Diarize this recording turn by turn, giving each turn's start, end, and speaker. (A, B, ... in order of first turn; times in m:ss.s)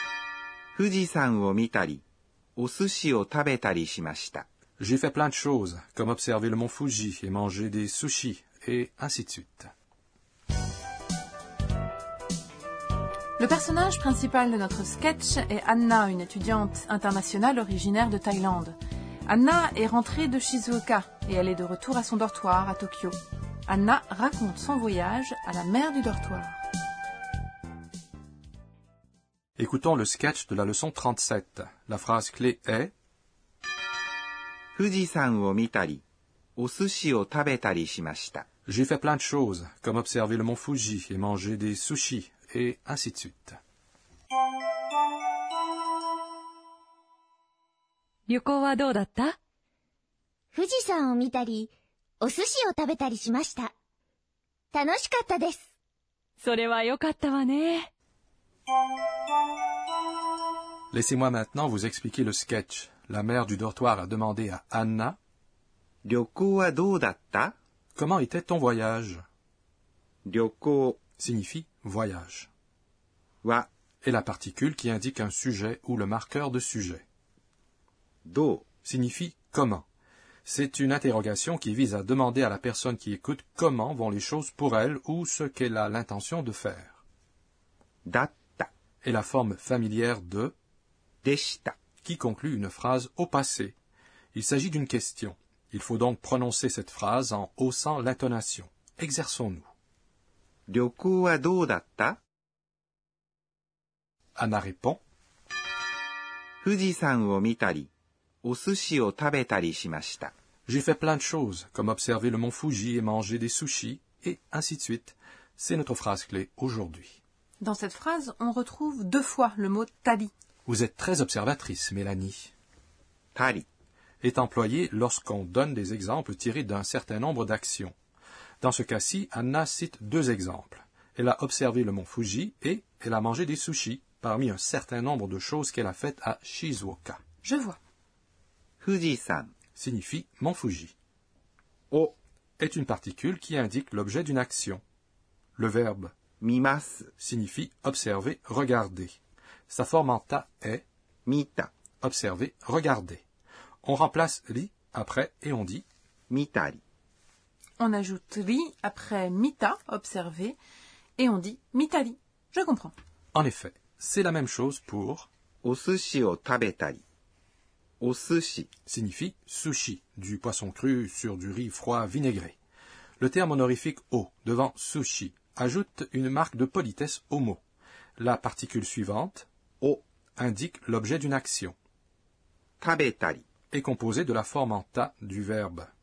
0:00.8-0:02.0 A
0:02.6-0:04.5 A
0:04.8-0:09.7 B
0:13.4-0:18.8 C
0:19.3-0:23.2 C
0:23.7-0:26.6 C
0:29.6-0:32.9 B
0:34.8-0:36.0 A
0:36.6-0:38.5 A
0:38.7-0:43.6 B
0:48.3-0:49.4 D
0:50.5-0:53.7 E
0:54.7-0:55.6 E
0:56.4-0:57.9 D
1:00.9-1:05.2 B
1:06.0-1:07.5 A
1:08.0-1:09.2 B
1:10.2-1:11.0 A
1:11.2-1:12.5 B
1:14.0-1:17.0 B
1:18.2-1:18.7 A
1:18.8-1:19.8 B
1:20.5-1:27.0 B
1:28.0-1:28.7 A
1:29.0-1:30.5 B
1:31.2-1:31.8 A
1:32.0-1:33.8 B
1:34.3-1:39.7 B
1:40.7-1:42.2 A
1:44.4-1:45.0 B
1:46.6-1:47.9 A
1:48.4-1:50.3 A
1:50.7-1:57.2 B
1:57.6-2:00.3 C
2:00.7-2:02.5 B
2:03.4-2:03.7 A
2:04.2-2:07.9 B
2:08.6-2:17.2 B
2:17.4-2:17.8 C
2:18.8-2:19.5 A
2:19.8-2:20.9 B
2:22.6-2:24.8 B
2:25.6-2:26.1 B
2:26.4-2:27.1 A
2:27.2-2:30.8 B
2:31.3-2:31.7 A
2:32.0-2:33.2 B
2:33.8-2:35.8 B
2:36.3-2:36.8 A
2:37.8-2:40.6 C
2:41.2-2:42.9 C
2:43.3-2:45.3 B
2:45.6-2:47.0 A
2:48.0-2:48.7 A
2:48.9-2:52.6 B
2:53.2-2:57.6 B
2:58.2-2:59.5 B
3:00.4-3:01.8 B
3:02.8-3:03.4 A
3:03.7-3:05.9 B